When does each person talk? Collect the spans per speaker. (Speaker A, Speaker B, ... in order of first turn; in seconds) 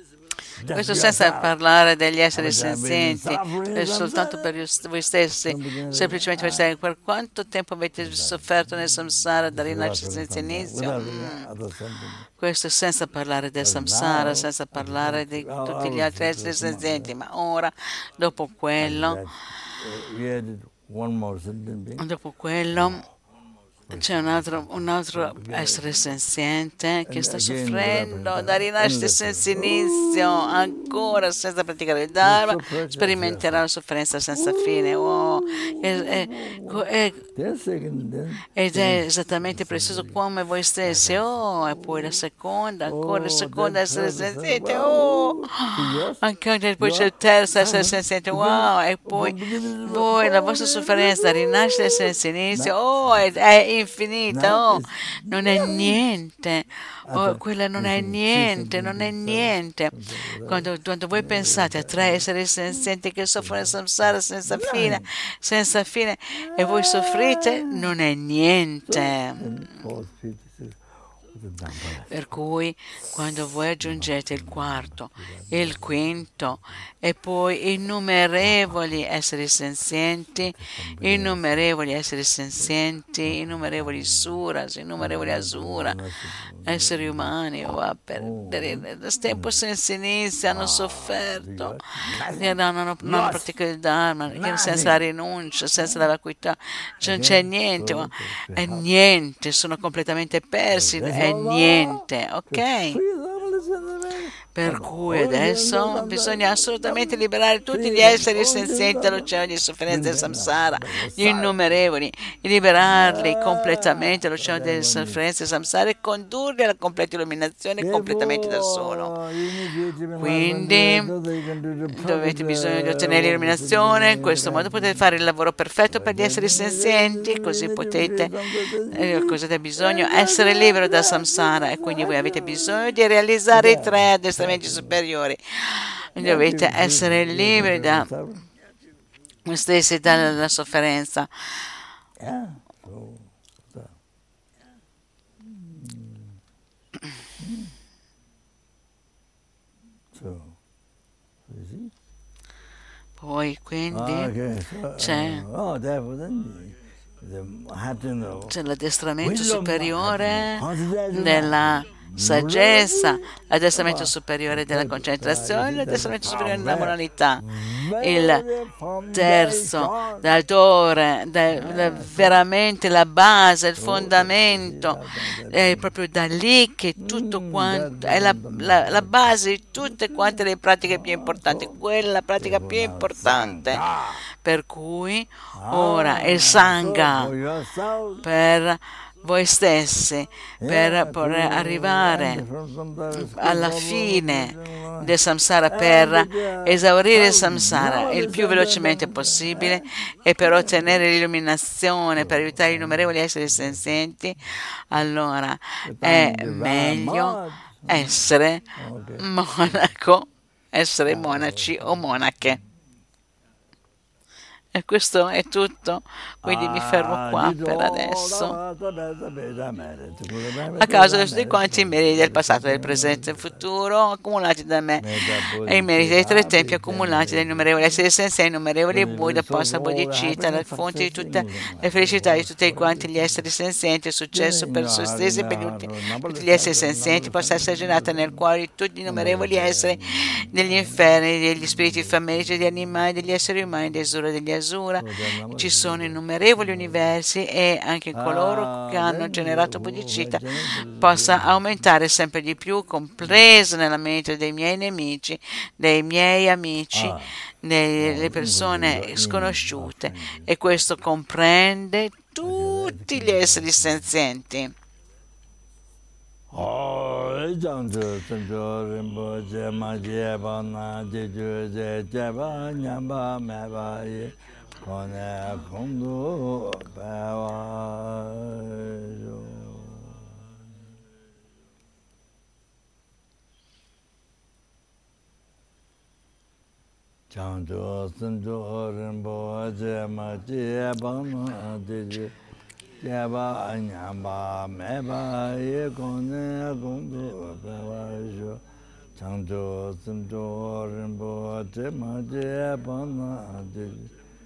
Speaker A: 0.5-1.6, 2.3-4.5, 5.3-6.7, 8.0-12.3, 13.6-17.1, 18.8-22.0, 22.7-23.1, 23.9-26.2, 27.1-31.3, 32.2-33.6, 34.3-40.2, 40.8-42.2, 42.8-46.2, 46.8-53.2, 54.3-56.0, 57.1-65.1, 66.3-68.0, 68.9-72.2, 73.1-76.7, 78.4-79.0, 80.4-81.7, 82.6-84.4, 85.0-89.6, 90.5-93.5, 94.3-95.0, 95.8-96.1, 97.0-98.9, 100.7-111.7, 112.8-115.2, 117.8-125.1, 125.8-135.0, 136.2-138.5, 142.2-143.9, 145.4-146.4, 147.4-147.7, 150.1-150.6, 151.4-151.9, 153.9-158.6, 159.2-170.3, 171.5-172.4, 173.8-175.9, 177.0-181.8, 182.3-184.2, 185.5-188.3, 190.6-195.1, 195.7-201.1, 202.2-204.0, 205.8-209.9, 211.1-212.6, 216.4-223.6, 225.0-228.0, 228.9-233.4, 234.3-238.4, 239.1-244.1, 245.0-247.2, 248.1-251.9, 256.9-257.3, 258.0-260.8, 262.4-264.1, 266.5-280.6, 287.3-292.4, 293.0-298.6, 299.1-304.1
Speaker B: 0.6-11.5, 12.4-19.2, 22.0-23.0, 23.9-37.2, 38.5-59.9, 60.5-69.8, 72.1-86.0, 86.6-103.0, 104.5-119.1, 120.2-121.1, 121.9-128.4, 128.9-138.1, 139.4-141.7, 153.2-154.3, 155.0-155.5, 158.5-167.4, 168.0-168.4, 169.1-187.3, 188.2-192.4, 193.2-208.6, 209.2-212.6, 214.8-218.6, 220.8-250.4, 251.0-264.7